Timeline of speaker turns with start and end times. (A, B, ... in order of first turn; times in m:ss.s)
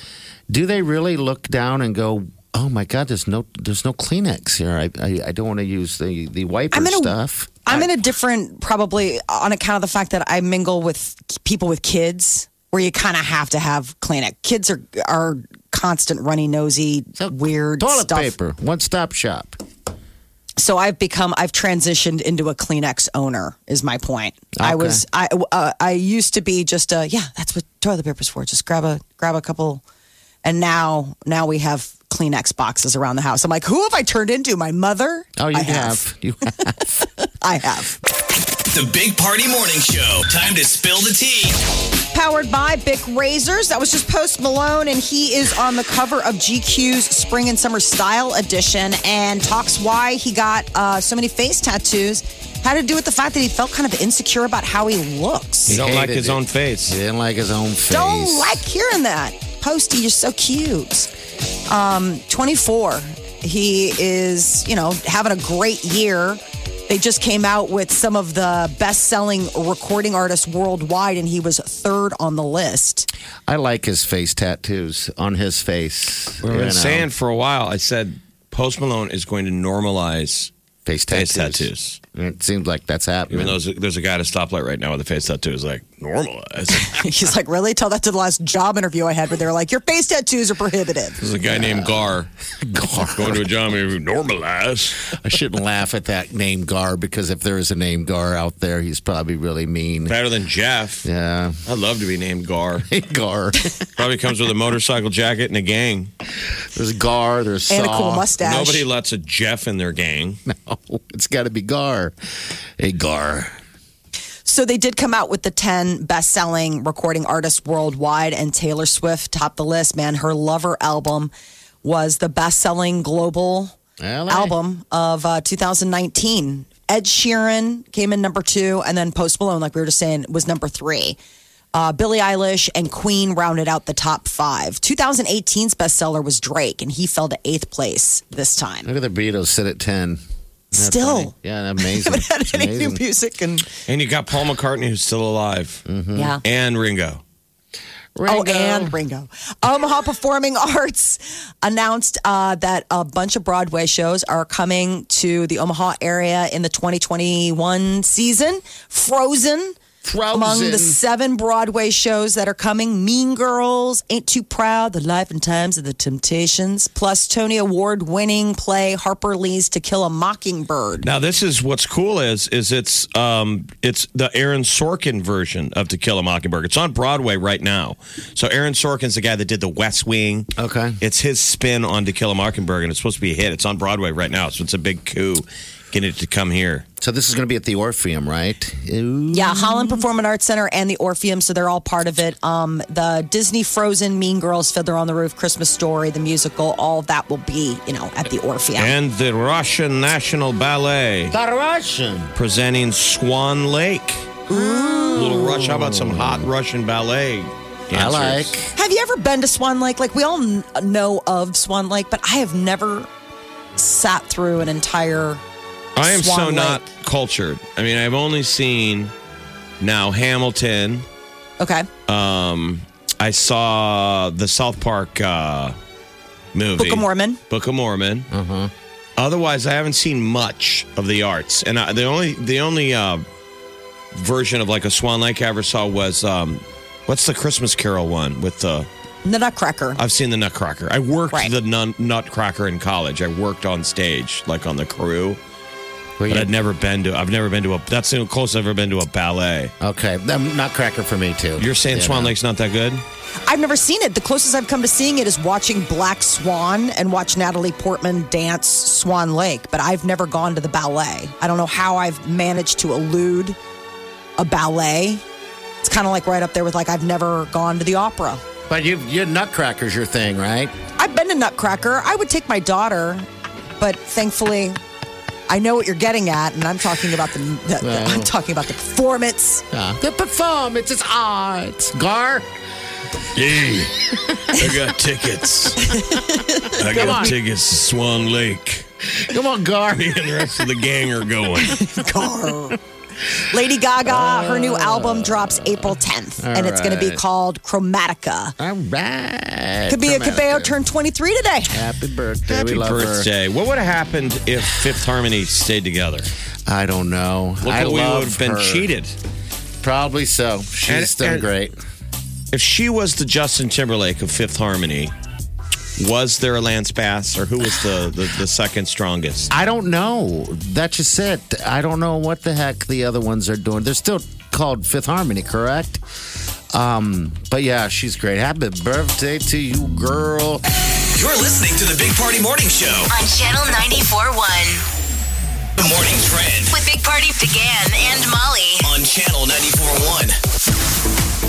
0:00.5-0:08.0 A
0:06.7-0:07.1 B
0:07.6-0:18.3 B
0:17.2-0:19.6 A
0:20.6-0:29.8 B
0:24.6-0:25.0 A
0:30.4-0:36.0 B
0:35.4-0:37.0 A
0:37.2-0:38.0 B
0:38.7-0:41.6 C
0:42.1-0:55.8 B
0:55.7-0:58.6 A
0:55.7-0:57.0 D
0:57.9-1:01.1 B
1:01.7-1:13.1 B
1:13.5-1:17.1 A
1:16.4-1:20.5 D
1:20.8-1:23.6 A
1:21.1-1:22.0 D
1:23.3-1:27.0 D
1:26.8-1:31.2 B
1:31.2-1:32.3 D
1:31.5-1:33.4 A
1:33.0-1:35.1 D
1:35.1-1:40.2 A
1:40.1-1:41.0 D
1:41.0-1:41.6 A
1:41.6-1:42.8 D
1:42.8-1:43.9 A
1:44.0-1:46.1 D
1:46.7-1:48.3 A
1:47.7-1:48.8 B
1:48.4-1:50.4 D
1:50.4-1:52.1 A
1:52.8-1:53.6 A
1:54.4-2:01.3 B
2:01.8-2:03.8 B
2:04.0-2:04.5 A
2:04.3-2:11.2 B
2:11.7-2:18.9 B
2:18.8-2:20.2 A
2:20.7-2:23.0 A
2:20.7-2:23.6 B
2:23.9-2:25.8 D
2:25.8-2:26.4 A
2:26.1-2:26.4 B
2:26.4-2:27.2 D
2:28.1-2:29.0 A
2:28.3-2:39.8 B
2:40.0-2:41.0 A
2:40.3-2:51.1 B
2:51.0-3:00.5 D
3:00.6-3:01.0 A
3:01.0-3:06.8 D
3:07.0-3:10.0 A
3:09.3-3:18.9 B
3:18.8-3:21.4 D
3:21.3-3:22.3 A
3:22.3-3:24.4 D
3:24.5-3:25.2 B
3:24.5-3:26.5 A
3:25.1-3:28.5 D
3:27.9-3:28.7 A
3:28.8-3:33.1 B
3:33.8-3:35.4 B
3:36.0-3:39.1 D
3:36.0-3:36.8 B
3:39.8-3:41.0 D
3:41.6-3:41.9 B
3:42.1-3:45.8 D
3:46.5-3:48.3 D
3:46.8-3:47.4 B
3:48.3-3:48.7 A
3:49.2-3:53.2 D
3:54.1-3:58.9 D
3:59.2-4:00.0 B
4:00.0-4:05.4 D
4:06.2-4:06.5 A
4:06.3-4:09.7 D
4:09.8-4:12.3 A
4:11.6-4:13.0 D
4:13.4-4:23.6 B
4:24.4-4:25.2 B
4:25.8-4:28.4 B
4:28.7-4:30.7 A
4:31.0-4:33.3 B
4:33.8-4:34.8 B
4:35.5-4:39.6 B
4:37.8-4:38.3 A
4:39.7-4:42.4 A
4:43.3-4:46.0 D
4:45.9-4:47.3 B
4:46.7-4:48.9 D
4:46.8-4:47.4 A
4:49.1-4:50.7 A
4:49.9-4:51.9 D
4:51.6-4:52.8 B
4:53.5-4:58.5 B
4:54.0-4:55.7 A
4:56.4-4:57.2 A
4:58.6-5:00.7 A
4:59.9-5:01.8 B
5:01.7-5:03.3 A
5:02.5-5:06.3 D
5:06.7-5:08.9 A
5:07.6-5:09.2 D
5:09.8-5:11.8 A
5:10.9-5:11.5 D
5:12.5-5:15.1 D
5:16.0-5:19.5 D
5:19.5-5:26.0 A
5:26.7-5:30.6 A
5:31.1-5:33.1 C
5:33.1-5:34.8 E
5:35.8-5:36.7 C
5:36.7-5:38.9 E
5:38.8-5:40.4 C